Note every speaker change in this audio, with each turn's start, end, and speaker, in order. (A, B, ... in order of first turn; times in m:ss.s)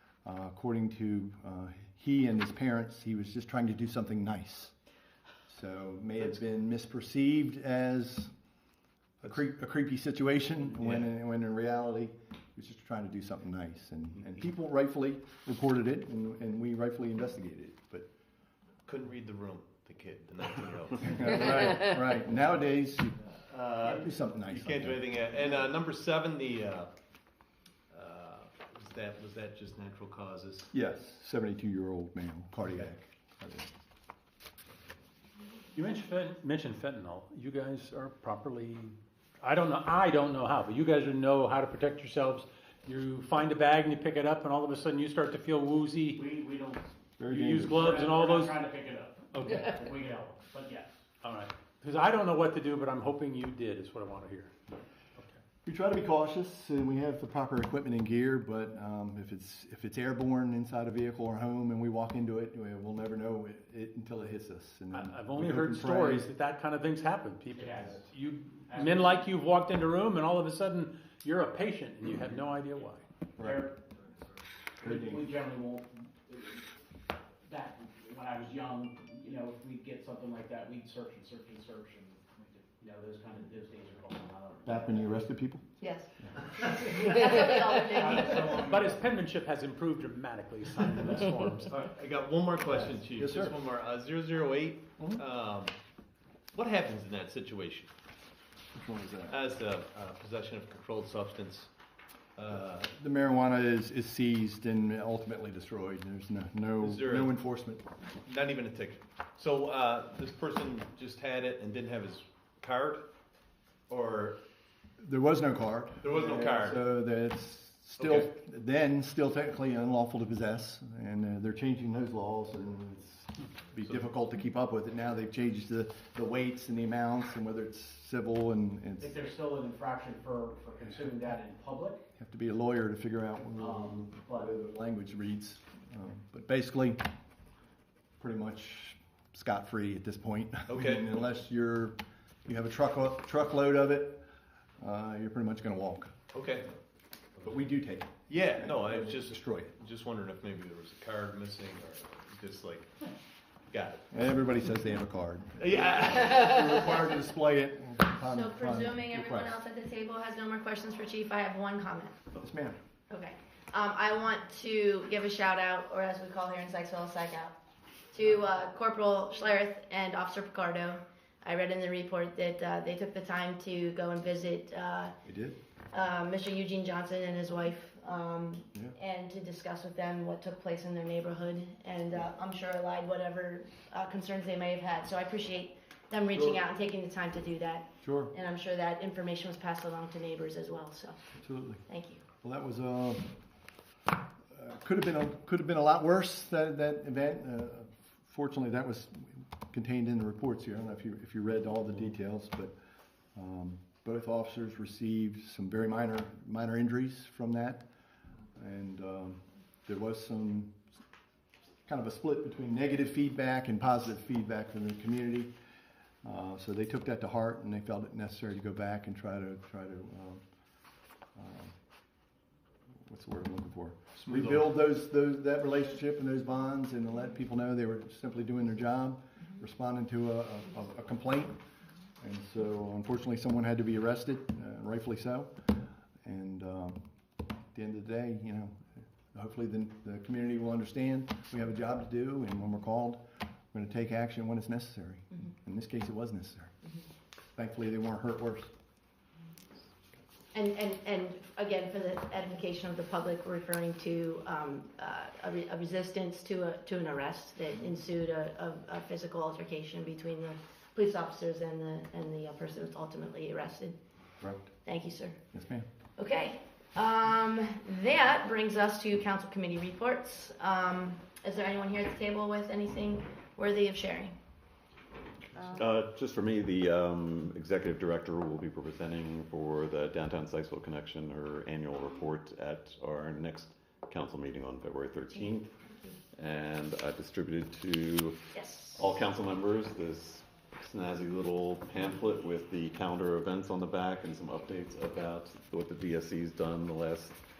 0:00.2-0:04.7 A
0:05.5-0:08.3 A
0:09.2-0:18.1 A
0:10.8-0:11.1 B
0:18.8-0:21.6 B
0:21.0-0:25.0 A
0:23.5-0:26.9 B
0:27.9-0:30.7 B
0:30.7-0:33.7 A
0:35.7-0:46.2 C
0:46.1-0:46.9 D
0:47.2-0:48.1 A
0:47.3-0:48.6 C
0:47.7-0:50.9 D
0:49.3-0:49.8 C
0:51.2-0:54.5 C
0:55.6-1:06.3 A
1:04.9-1:13.0 C
1:07.5-1:08.0 D
1:08.7-1:09.2 D
1:13.4-1:13.7 A
1:13.4-1:13.8 D
1:14.8-1:15.3 A
1:14.8-1:16.6 D
1:17.4-1:25.2 D
1:24.6-1:26.3 A
1:25.8-1:28.7 E
1:27.9-1:29.0 D
1:28.0-1:31.8 C
1:31.7-1:35.8 B
1:33.1-1:33.6 A
1:36.5-1:37.9 B
1:38.7-1:39.4 A
1:39.3-1:41.7 B
1:42.4-1:42.9 B
1:42.8-1:47.8 A
1:46.8-1:47.3 B
1:48.2-1:53.1 B
1:53.9-1:54.4 B
1:55.0-2:09.2 A
1:56.0-1:56.8 B
1:58.0-1:58.3 B
2:09.0-2:12.0 D
2:10.9-2:11.2 A
2:12.2-2:17.1 A
2:13.6-2:14.5 D
2:18.2-2:24.2 A
2:20.7-2:21.1 B
2:24.8-2:26.2 A
2:26.3-2:26.7 B
2:27.4-2:29.7 A
2:28.3-2:32.9 B
2:33.7-2:34.1 B
2:34.1-2:39.6 A
2:35.6-2:36.6 B
2:38.3-2:42.2 E
2:42.4-2:42.8 A
2:43.1-2:47.6 E
2:48.1-2:55.1 E
2:55.2-2:55.6 A
2:55.9-3:11.2 E
3:08.0-3:08.3 A
3:11.4-3:11.8 A
3:11.9-3:12.2 E
3:12.4-3:13.3 A
3:14.5-3:22.7 A
3:23.3-3:27.8 A
3:28.6-3:30.8 A
3:31.8-3:35.5 A
3:36.2-3:40.4 A
3:41.3-3:41.8 A
3:43.0-3:51.6 A
3:44.2-3:44.7 B
3:52.2-3:57.0 A
3:57.7-4:06.7 A
4:07.5-4:08.7 A
4:10.5-4:24.0 E
4:24.4-4:24.7 A
4:24.8-4:25.4 E
4:25.5-4:25.8 A
4:26.2-4:34.3 E
4:35.7-4:45.7 F
4:45.9-4:46.2 E
4:46.3-4:57.4 F
4:48.5-4:49.0 E